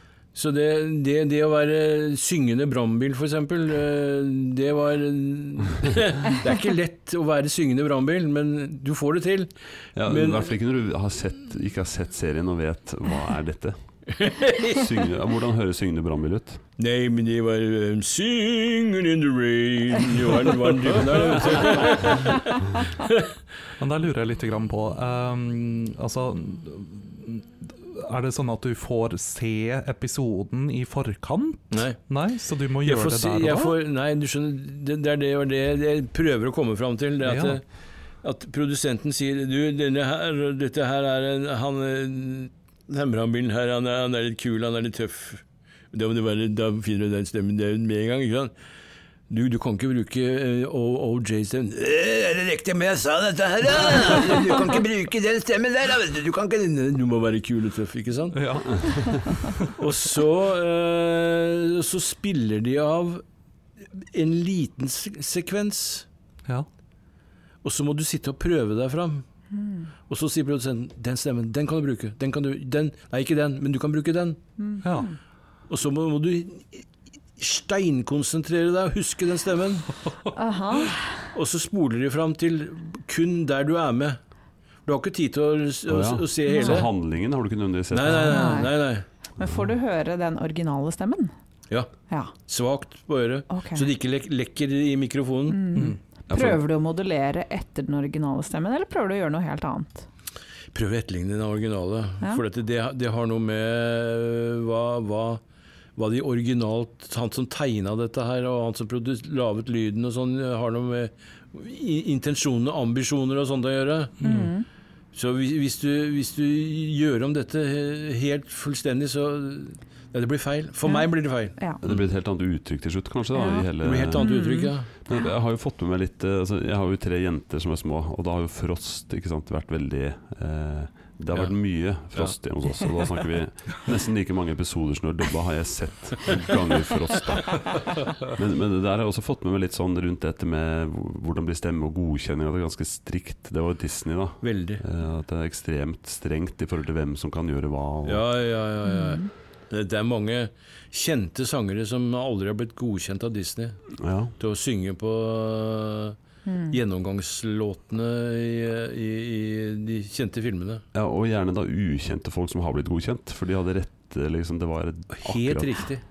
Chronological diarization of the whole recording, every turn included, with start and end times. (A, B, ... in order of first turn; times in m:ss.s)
0:00.3-0:09.5 A
0:10.0-0:13.8 B
0:10.0-0:10.5 A
0:14.2-0:14.8 A
0:14.5-0:16.6 B
0:16.8-0:22.6 A
0:23.8-0:33.8 C
0:31.7-0:32.0 A
0:32.8-0:37.6 A
0:37.2-0:37.6 C
0:38.2-0:48.5 A
0:49.3-0:58.8 A
0:58.3-0:59.7 C
0:59.7-1:03.2 A
1:04.0-1:06.0 A
1:07.6-1:09.2 A
1:09.6-1:09.8 D
1:10.1-1:14.4 A
1:14.6-1:15.1 D
1:14.8-1:15.1 C
1:15.7-1:16.8 A
1:17.4-1:20.0 A
1:20.3-1:21.3 D
1:21.3-1:24.2 A
1:24.8-1:26.9 A
1:25.9-1:28.5 B
1:26.5-1:26.9 D
1:27.9-1:29.0 A
1:28.2-1:28.8 D
1:29.4-1:31.3 D
1:32.4-1:35.7 A
1:33.5-1:33.9 D
1:35.5-1:40.1 D
1:36.3-1:36.6 B
1:40.7-1:45.4 A
1:46.0-1:54.2 A
1:54.2-1:54.5 C
1:54.2-1:54.6 D
1:55.1-2:02.0 A
2:00.8-2:01.8 D
2:01.8-2:04.3 B
2:03.3-2:04.7 D
2:03.8-2:04.9 A
2:05.0-2:28.2 B
2:24.4-2:24.8 A
2:28.0-2:33.8 A
2:28.8-2:29.3 D
2:34.0-2:34.3 B
2:34.4-2:36.2 A
2:36.5-2:36.8 D
2:36.7-2:40.8 A
2:40.9-2:45.9 B
2:45.1-2:46.0 A